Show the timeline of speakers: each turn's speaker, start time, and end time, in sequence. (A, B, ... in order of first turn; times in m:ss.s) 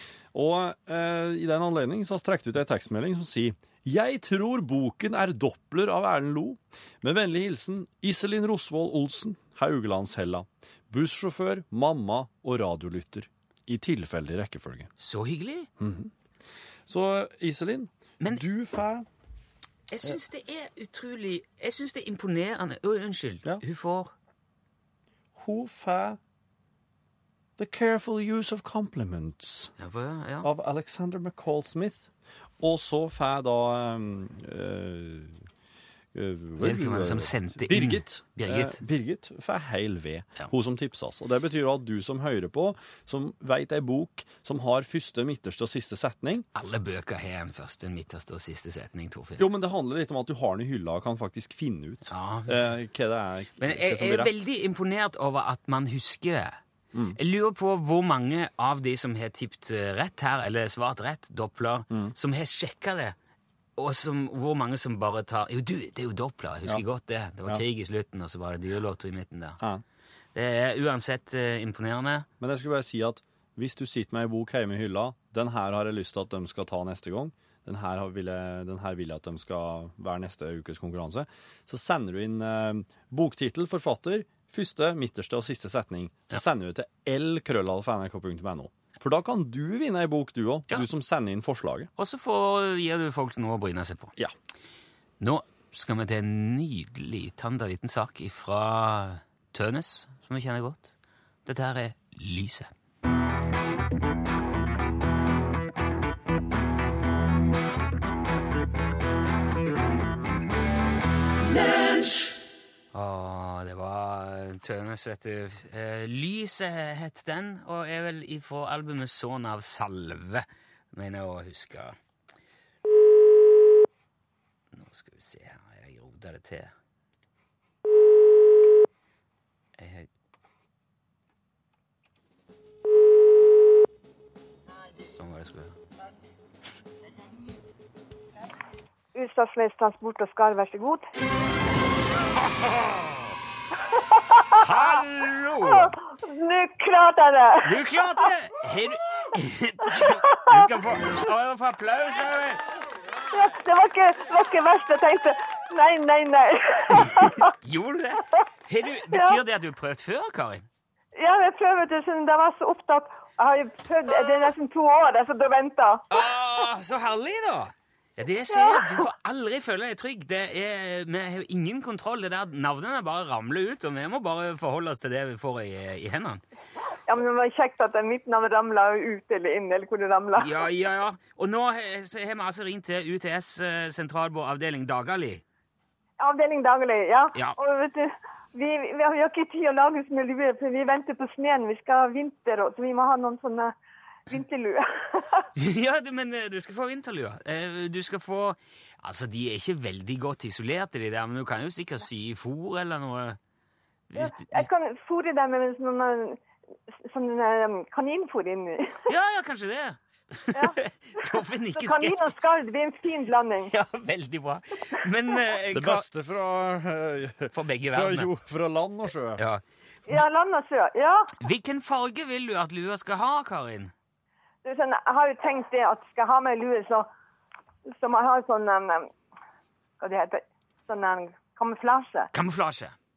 0:00.3-0:14.9 A
0:15.0-0:15.7 B
0:15.8-0:16.1 A
0:16.9-0:19.1 A
0:19.9-0:24.1 B
0:25.3-0:26.2 A
0:27.6-0:29.7 A
0:29.8-0:30.5 B
0:30.4-0:35.4 A
0:36.1-0:46.4 A
0:36.6-0:38.8 B
0:46.5-0:49.4 B
0:49.4-0:54.3 A
0:52.1-0:52.7 B
0:53.6-0:56.6 B
0:57.2-1:03.1 B
1:03.8-1:09.6 B
1:10.3-1:12.3 B
1:12.4-1:31.9 A
1:32.0-1:34.1 B
1:35.2-1:40.9 B
1:41.4-1:42.7 B
1:52.9-2:02.0 B
2:04.7-2:06.7 B
2:09.8-2:10.1 B
2:15.0-2:15.8 B
2:19.1-2:21.0 C
2:24.2-2:24.6 C
2:24.6-2:25.9 B
2:25.7-2:27.8 C
2:27.6-2:32.6 B
2:30.0-2:30.6 C
2:33.3-2:37.5 C
2:37.0-2:40.6 B
2:39.1-2:39.4 C
2:41.2-2:46.0 C
2:46.1-2:56.4 B
2:48.5-2:49.0 C
2:57.1-3:00.5 C
3:00.4-3:05.4 B
3:06.2-3:13.7 C
3:14.3-3:15.5 C
3:15.6-3:23.4 B
3:24.1-3:24.7 B
3:24.2-3:26.4 C
3:27.0-3:29.0 C
3:29.1-3:32.4 B
3:31.8-3:33.7 C
3:33.7-3:36.0 B
3:35.7-3:39.4 A
3:37.5-3:38.3 B
3:39.4-3:39.6 B
3:40.1-3:41.3 C
3:41.4-3:43.9 B
3:44.6-3:47.1 C
3:47.9-3:49.1 C
3:50.0-3:52.3 C
3:52.3-3:52.9 B